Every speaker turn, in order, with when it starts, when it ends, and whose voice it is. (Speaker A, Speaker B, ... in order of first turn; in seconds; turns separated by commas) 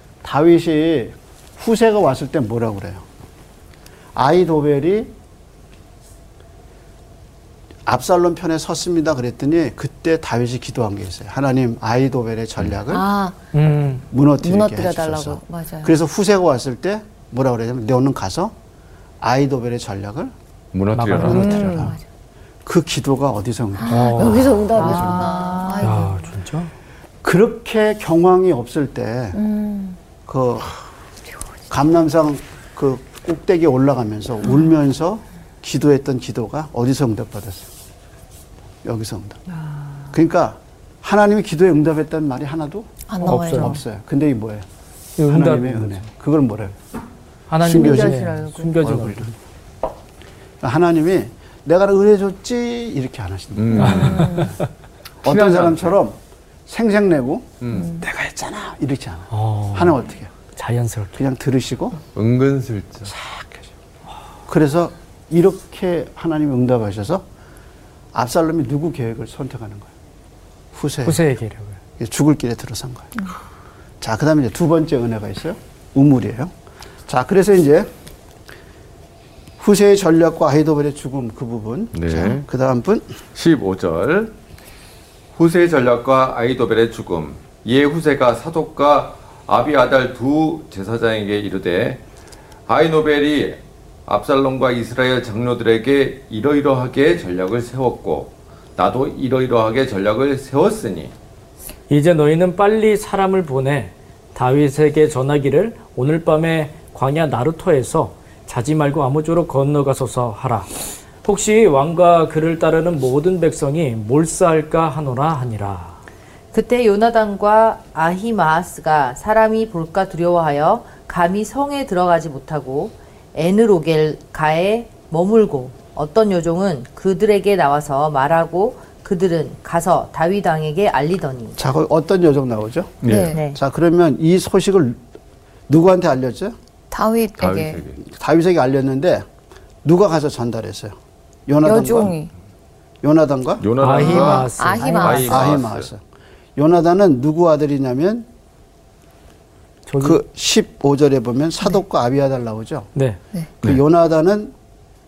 Speaker A: 0.2-3.0, Speaker A: 4.1-5.1, Speaker A: 7.9-13.1, Speaker B: 12.9-13.5, Speaker C: 13.5-14.1, Speaker A: 14.1-18.6, Speaker B: 14.4-16.0, Speaker A: 19.2-20.3, Speaker D: 20.7-21.7, Speaker C: 20.9-21.9, Speaker A: 21.1-22.0, Speaker B: 21.2-22.0, Speaker A: 22.6-25.4, Speaker B: 23.8-26.3, Speaker C: 23.9-24.6, Speaker E: 24.7-26.0, Speaker C: 25.8-26.7, Speaker A: 27.2-29.4, Speaker B: 29.3-30.0, Speaker A: 30.3-30.7, Speaker A: 31.7-37.7, Speaker A: 38.8-39.4, Speaker E: 39.6-40.0, Speaker A: 40.1-44.6, Speaker B: 43.1-43.8, Speaker C: 43.2-43.8, Speaker C: 45.2-46.0, Speaker A: 45.3-46.8, Speaker C: 47.5-49.3, Speaker A: 47.6-49.3, Speaker E: 47.7-48.7, Speaker A: 50.6-54.4, Speaker D: 53.5-54.5, Speaker C: 53.8-54.6, Speaker B: 53.9-54.5, Speaker D: 55.2-56.0, Speaker A: 55.2-60.4, Speaker D: 57.6-58.0, Speaker B: 57.8-58.0, Speaker C: 59.3-60.0, Speaker C: 60.5-61.2, Speaker A: 61.2-62.0, Speaker D: 62.1-63.1, Speaker A: 63.1-63.7, Speaker A: 64.5-67.2, Speaker A: 68.1-69.9, Speaker A: 70.7-71.2, Speaker C: 71.0-71.8, Speaker A: 72.0-73.2, Speaker A: 74.0-76.5, Speaker A: 77.1-77.9, Speaker A: 79.6-83.1, Speaker D: 81.9-82.5, Speaker D: 83.3-84.3, Speaker D: 85.3-92.0, Speaker D: 92.7-101.1, Speaker C: 101.9-110.7, Speaker C: 111.2-116.0, Speaker E: 116.5-131.6, Speaker A: 131.6-135.0, Speaker D: 133.0-133.4, Speaker B: 133.1-133.4, Speaker E: 133.3-133.6, Speaker A: 135.7-136.6, Speaker B: 136.9-137.8, Speaker D: 137.4-138.0, Speaker A: 138.0-139.2, Speaker A: 139.8-142.2, Speaker B: 141.6-142.3, Speaker A: 143.0-143.7, Speaker D: 143.6-145.9, Speaker C: 143.8-145.3, Speaker B: 144.0-145.5, Speaker A: 145.1-146.0, Speaker A: 146.6-148.3, Speaker C: 149.9-150.2, Speaker A: 150.0-152.9, Speaker C: 152.9-153.2, Speaker A: 153.6-154.5